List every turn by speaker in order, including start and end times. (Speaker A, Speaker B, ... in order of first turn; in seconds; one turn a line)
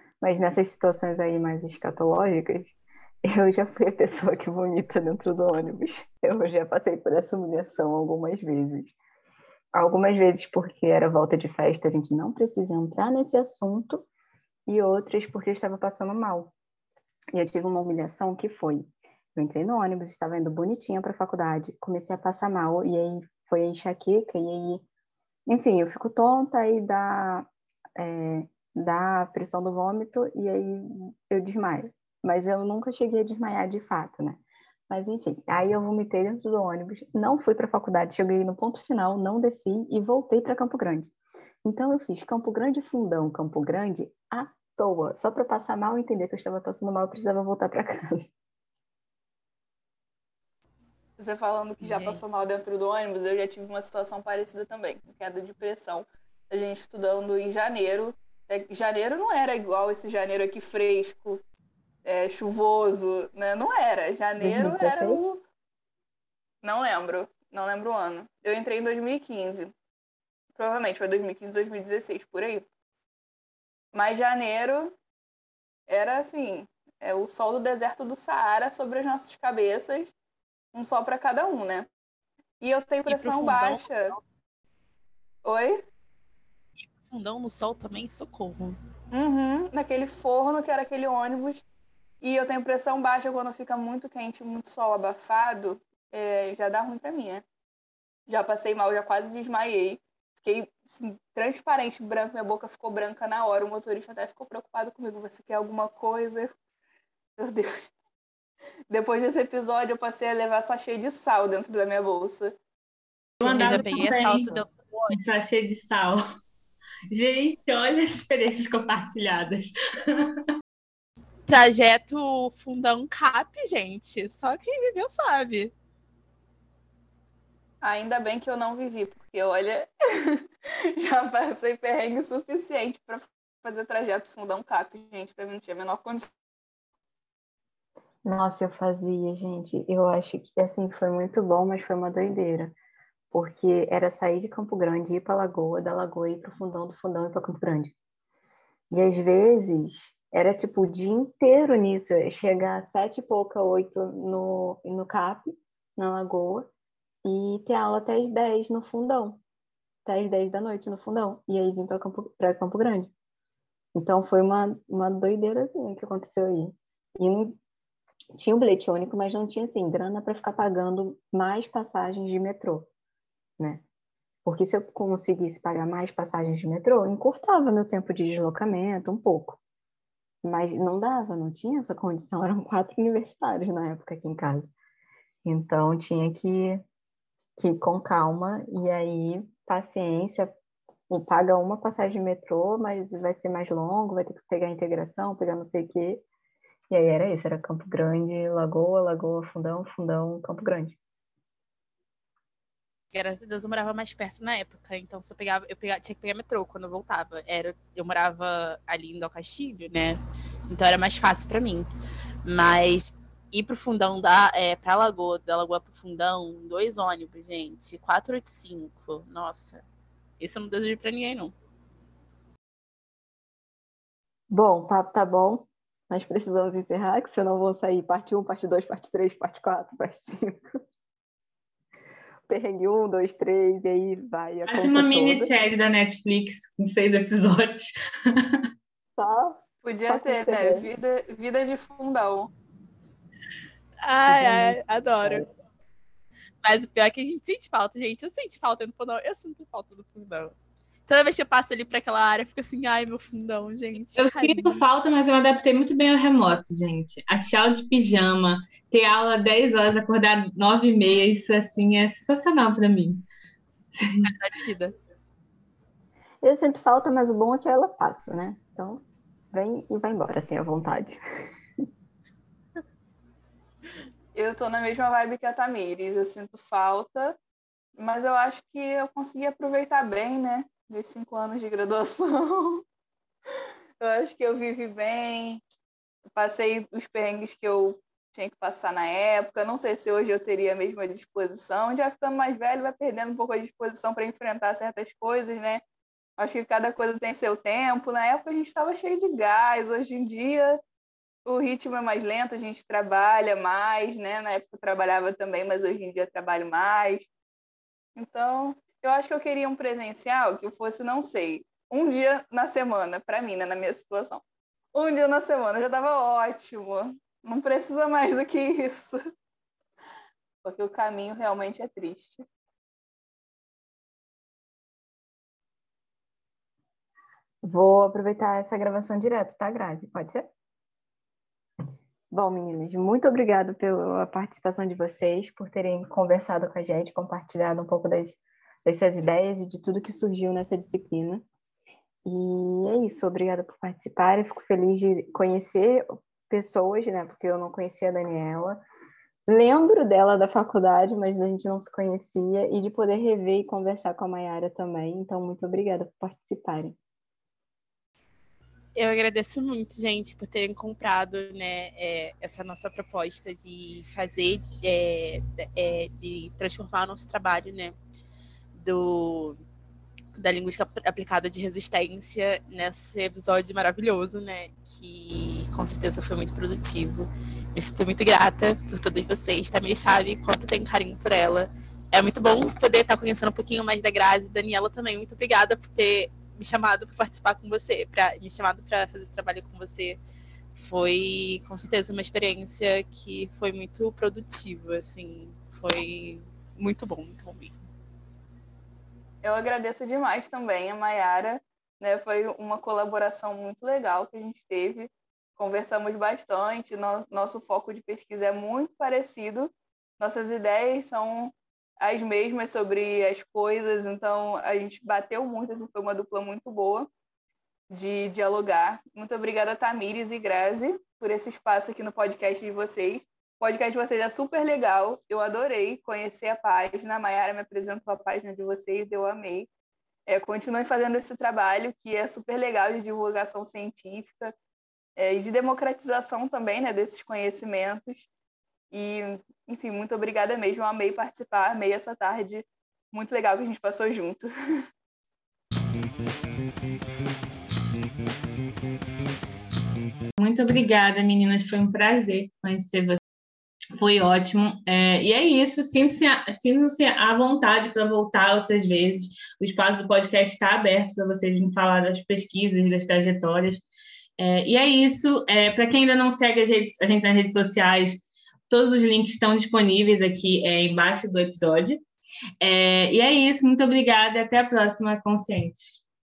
Speaker A: 0.2-8.9
Speaker A: 9.7-14.1
Speaker A: 14.7-16.5
Speaker A: 17.3-24.8
Speaker A: 25.5-41.1
Speaker A: 41.6-48.3
Speaker B: 51.2-61.4
Speaker C: 51.8-52.2
Speaker B: 62.0-65.4
Speaker A: 64.4-65.3
Speaker B: 66.6-69.7
Speaker B: 70.5-72.6
Speaker B: 73.9-74.9
Speaker B: 75.9-80.1
Speaker B: 80.7-81.9
Speaker B: 82.6-84.2
Speaker C: 83.1-84.2
Speaker B: 85.4-85.8
Speaker C: 86.8-88.8
Speaker B: 89.1-91.6
Speaker B: 92.2-97.4
Speaker B: 98.3-106.5
Speaker B: 107.4-107.7
Speaker B: 108.9-112.5
Speaker D: 113.4-116.2
Speaker C: 113.4-115.2
Speaker D: 117.1-120.5
Speaker C: 121.5-125.7
Speaker B: 127.8-136.3
Speaker A: 138.2-142.8
Speaker A: 143.3-147.9
Speaker A: 148.9-156.7
Speaker A: 157.2-159.4
Speaker A: 160.0-163.1
Speaker A: 163.9-167.6
Speaker A: 168.3-172.9
Speaker A: 173.6-173.8
Speaker A: 174.4-179.6
Speaker A: 180.4-184.7
Speaker A: 185.4-186.8
Speaker A: 187.6-190.6
Speaker A: 191.1-196.2
Speaker A: 196.9-201.0
Speaker C: 203.1-211.9
Speaker C: 212.4-219.8
Speaker C: 220.4-221.5
Speaker A: 224.5-230.8
Speaker A: 232.5-235.5
Speaker D: 234.7-238.6
Speaker A: 239.2-240.9
Speaker B: 239.8-242.5
Speaker C: 244.0-245.4
Speaker A: 244.2-245.5
Speaker C: 246.6-250.6
Speaker C: 251.1-254.8
Speaker D: 254.2-263.2
Speaker D: 263.9-264.3
Speaker C: 264.2-264.9
Speaker A: 266.4-271.2
Speaker B: 274.3-277.4
Speaker B: 277.9-282.8
Speaker B: 284.0-285.6
Speaker B: 286.4-295.8
Speaker B: 296.4-300.8
Speaker B: 301.4-307.3
Speaker B: 308.1-314.4
Speaker B: 314.9-319.2
Speaker B: 320.6-322.4
Speaker A: 327.6-330.5
Speaker A: 332.3-341.4
Speaker A: 342.2-348.8
Speaker A: 349.5-357.0
Speaker C: 358.9-367.9
Speaker C: 368.7-369.6
Speaker C: 370.4-390.2
Speaker C: 390.7-397.8
Speaker B: 399.4-417.1
Speaker B: 417.9-429.7
Speaker B: 430.3-434.5
Speaker B: 435.2-438.3
Speaker B: 438.9-444.5
Speaker D: 450.4-453.2
Speaker D: 453.9-463.8
Speaker D: 464.4-472.0
Speaker D: 472.6-476.0